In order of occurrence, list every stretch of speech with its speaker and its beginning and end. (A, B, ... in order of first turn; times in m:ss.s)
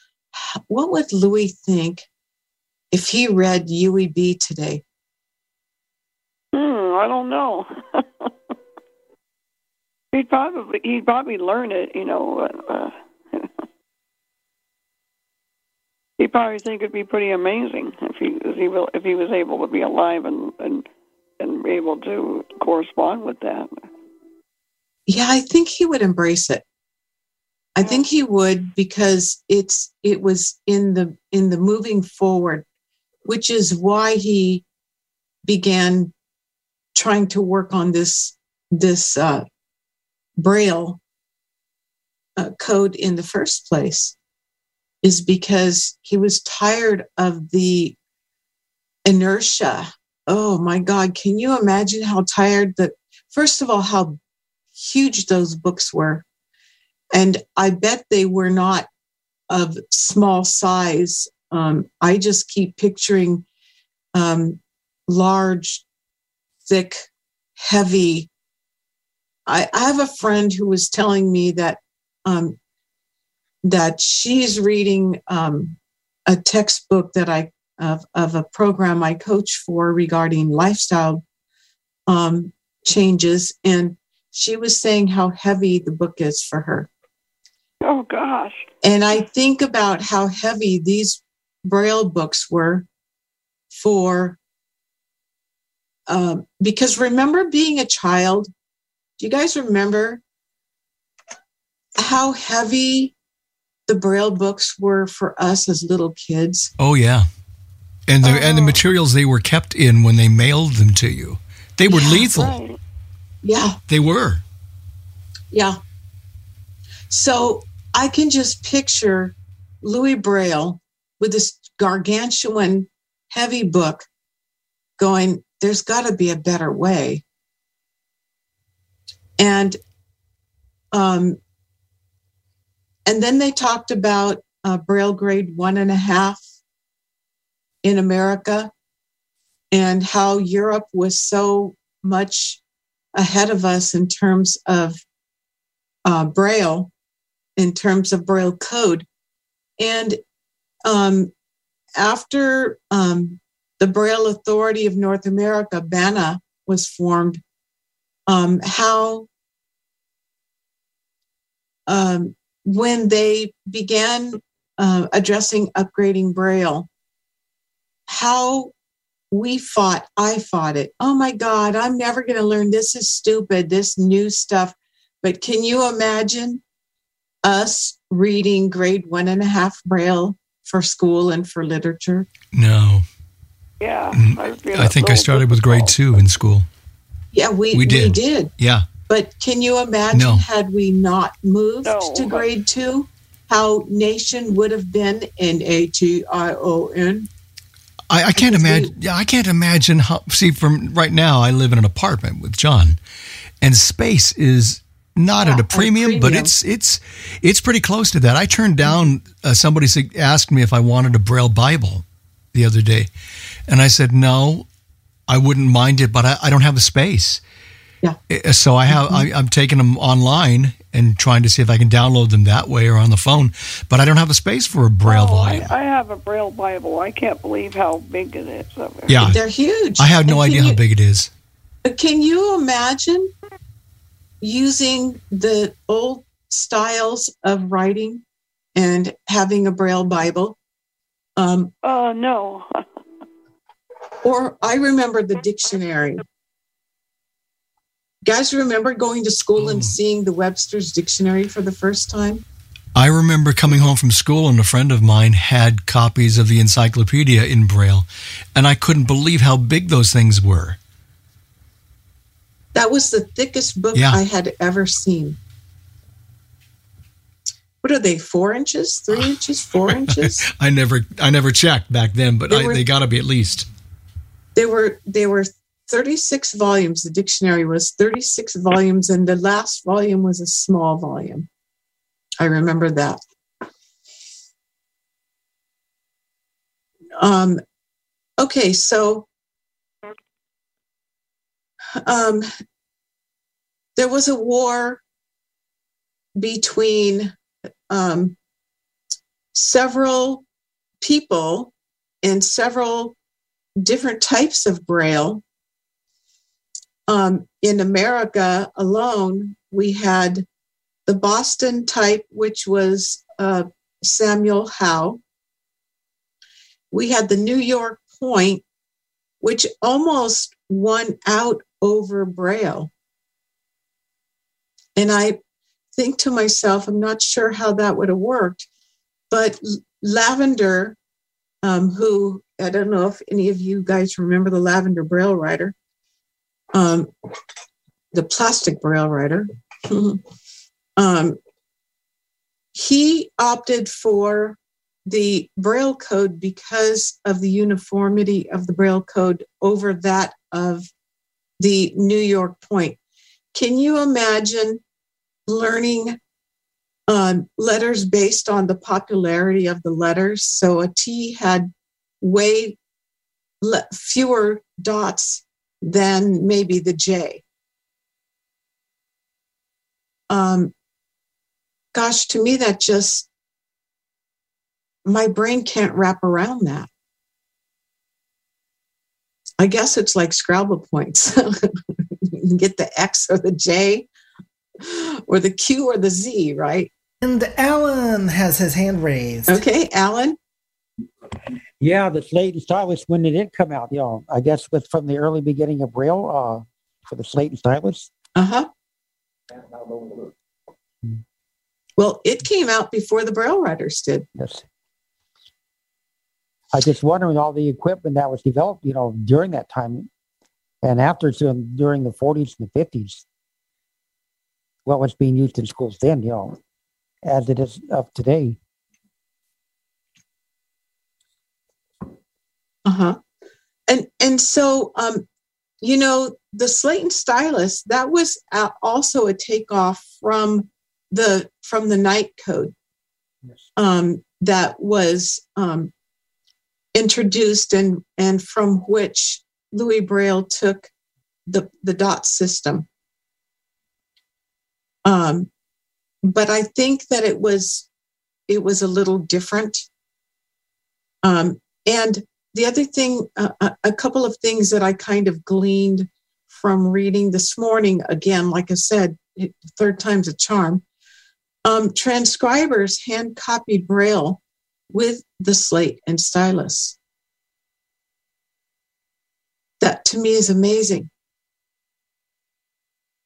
0:00.3-0:02.1 A
0:02.9-0:04.8 A
0:06.5-0:08.5 B
0:10.1-0:13.5 B
0:16.2-0:20.9 B
0:21.4-0:23.7 B
0:25.1-0:26.6 A
0:27.8-0:32.6 A
0:33.3-0:34.6 A
0:35.4-0:36.1 A
0:37.0-0:39.4 A
0:40.4-0:41.0 A
0:42.4-0:44.2 A
0:45.0-0:48.0 A
0:49.1-0:54.2 A
0:54.8-0:56.2 A
0:57.1-0:58.9 A
0:59.5-1:03.4 A
1:04.2-1:05.8 A
1:06.7-1:08.3 A
1:09.5-1:12.6 A
1:13.6-1:21.2 A
1:22.1-1:26.9 A
1:27.8-1:28.6 B
1:28.8-1:32.9 A
1:33.7-1:34.4 A
1:36.1-1:38.5 A
1:39.2-1:40.2 A
1:42.0-1:43.2 A
1:43.9-1:46.7 A
1:46.8-1:47.3 C
1:48.1-1:52.6 C
1:48.2-1:48.8 B
1:51.9-1:52.4 A
1:52.4-1:52.8 B
1:53.4-1:53.8 A
1:53.9-1:54.4 C
1:55.5-1:55.8 A
1:57.1-2:04.1 A
2:05.0-2:07.2 A
2:09.4-2:09.8 A
2:10.9-2:11.4 A
2:13.1-2:16.4 A
2:17.8-2:18.7 A
2:19.7-2:22.6 A
2:23.2-2:25.0 A
2:26.1-2:26.9 A
2:27.6-2:29.1 A
2:29.8-2:30.2 A
2:30.8-2:31.3 A
2:32.0-2:37.4 A
2:38.3-2:39.3 A
2:41.9-2:46.9 A
2:48.1-2:48.7 A
2:49.3-2:56.6 A
2:57.4-3:02.3 A
3:02.5-3:03.0 C
3:03.8-3:06.0 B
3:04.1-3:06.7 C
3:07.3-3:08.5 A
3:07.7-3:08.9 C
3:09.1-3:17.3 A
3:10.1-3:10.4 C
3:11.8-3:12.5 B
3:18.1-3:23.0 C
3:18.4-3:18.9 A
3:23.6-3:33.1 C
3:25.4-3:26.5 A
3:33.7-3:34.7 C
3:35.3-3:37.4 C
3:38.3-3:45.7 C
3:38.9-3:39.3 A
3:45.0-3:49.2 B
3:49.1-3:49.4 C
3:49.2-3:50.8 A
3:50.0-3:51.3 C
3:51.8-3:53.3 A
3:54.4-3:58.2 A
3:58.8-4:00.6 A
4:01.4-4:01.7 A
4:01.8-4:03.0 B
4:04.2-4:06.2 A
4:08.2-4:12.4 A
4:09.6-4:09.9 C
4:13.0-4:20.8 C
4:22.7-4:25.4 A
4:23.9-4:24.2 C
4:27.8-4:30.5 A
4:29.9-4:33.7 C
4:32.5-4:32.8 A
4:34.6-4:41.5 A
4:42.4-4:43.2 A
4:47.2-4:47.6 A
4:48.4-4:49.3 A
4:52.0-4:52.5 A
4:54.0-4:55.0 A
4:56.4-4:57.3 A
4:57.9-4:58.4 A
4:59.5-5:00.4 A
5:01.0-5:01.7 A
5:02.2-5:03.2 A
5:03.8-5:05.4 A
5:07.1-5:10.5 A
5:11.1-5:15.2 A
5:16.9-5:18.6 A
5:19.4-5:22.9 A
5:25.0-5:25.4 A
5:26.0-5:28.7 A
5:29.3-5:31.0 A
5:31.6-5:35.7 A
5:36.7-5:37.1 A
5:38.1-5:40.2 A
5:41.0-5:41.4 A
5:42.8-5:50.9 A
5:51.6-5:53.0 A
5:53.5-5:54.8 A
5:55.5-5:56.2 A
5:57.1-6:02.8 A
6:03.6-6:07.4 A
6:10.3-6:10.7 A
6:11.9-6:13.3 A
6:15.0-6:16.9 A
6:19.6-6:21.7 A
6:22.3-6:24.1 A
6:24.8-6:26.9 A
6:27.2-6:29.6 D
6:29.5-6:30.4 A
6:31.8-6:38.1 E
6:38.4-6:38.7 A
6:40.0-6:40.3 E
6:42.0-6:44.3 A
6:44.4-6:44.6 E
6:46.7-6:50.1 E
6:50.8-6:53.2 E
6:54.9-6:56.6 E
6:57.2-6:58.6 E
7:02.9-7:03.2 A
7:03.9-7:05.2 A
7:05.8-7:12.7 A
7:13.8-7:15.9 A
7:16.9-7:20.9 A
7:21.5-7:22.8 A
7:25.0-7:25.5 A
7:26.2-7:27.9 A
7:28.5-7:29.9 A
7:31.2-7:40.8 A
7:41.6-7:44.4 A
7:44.9-7:47.0 A
7:49.8-7:51.1 A